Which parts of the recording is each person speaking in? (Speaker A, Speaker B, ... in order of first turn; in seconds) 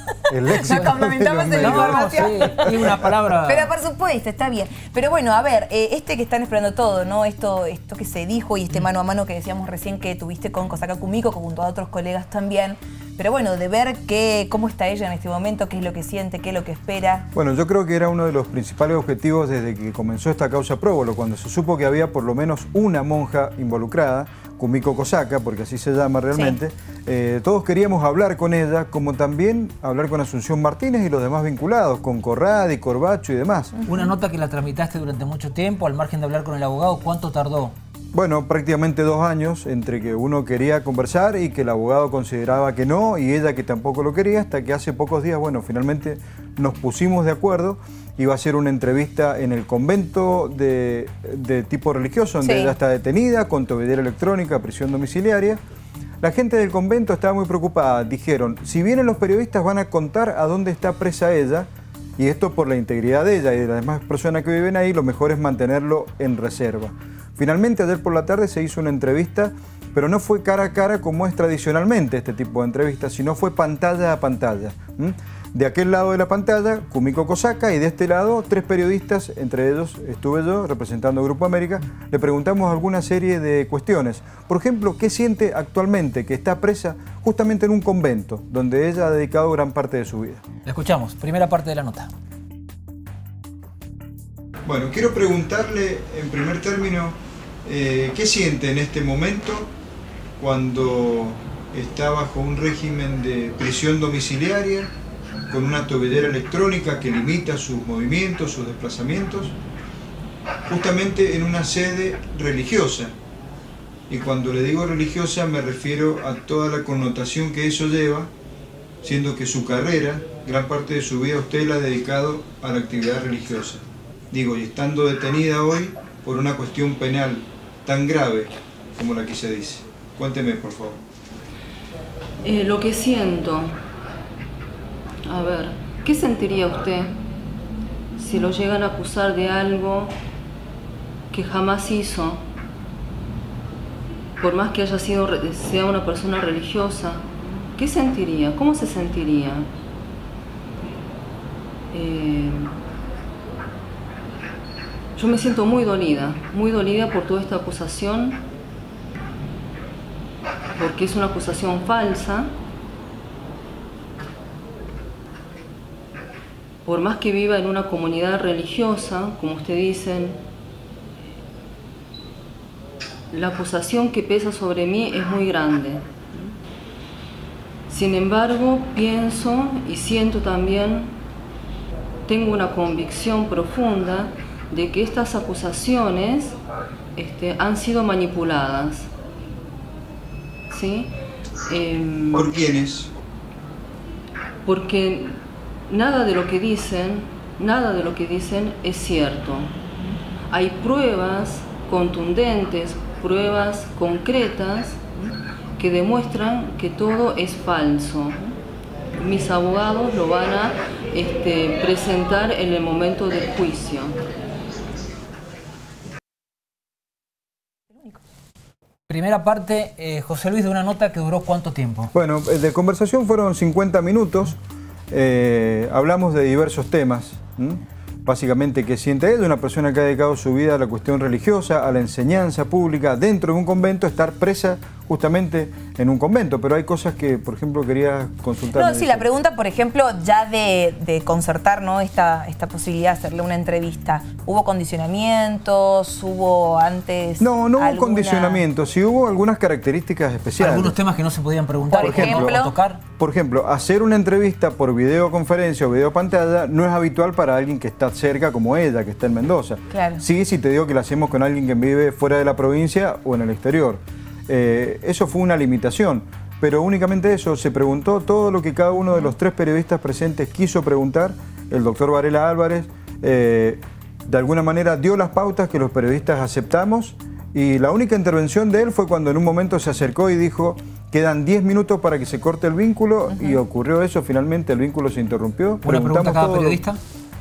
Speaker A: 0.3-2.9, 17.3-33.8, 38.1-55.6, 56.2-90.4, 94.7-99.7, 100.4-104.9, 105.5-109.5, 110.7-113.1, 114.1-118.3, 119.0-131.0, 192.3-193.1, 222.1-224.6, 225.1-239.2, 247.4-250.9, 252.0-252.6, 253.2-286.8
Speaker B: 0.5-17.3, 26.3-26.6, 52.4-52.8, 238.7-248.6, 251.9-252.7, 259.9-260.2, 283.3-283.6
Speaker C: 1.6-3.7, 33.8-37.7, 90.6-92.1, 219.1-222.1, 250.6-253.0, 285.8-287.0
Speaker D: 132.4-133.8, 135.2-137.1, 138.2-140.1, 141.3-142.4, 144.4-149.7, 151.9-152.8, 155.2-158.4, 160.7-162.5, 166.8-170.4, 173.3-176.5, 177.9-181.2, 182.2-186.5, 187.2-189.1, 190.7-191.1, 191.7-192.5, 194.6-199.9, 200.5-208.6, 209.2-214.2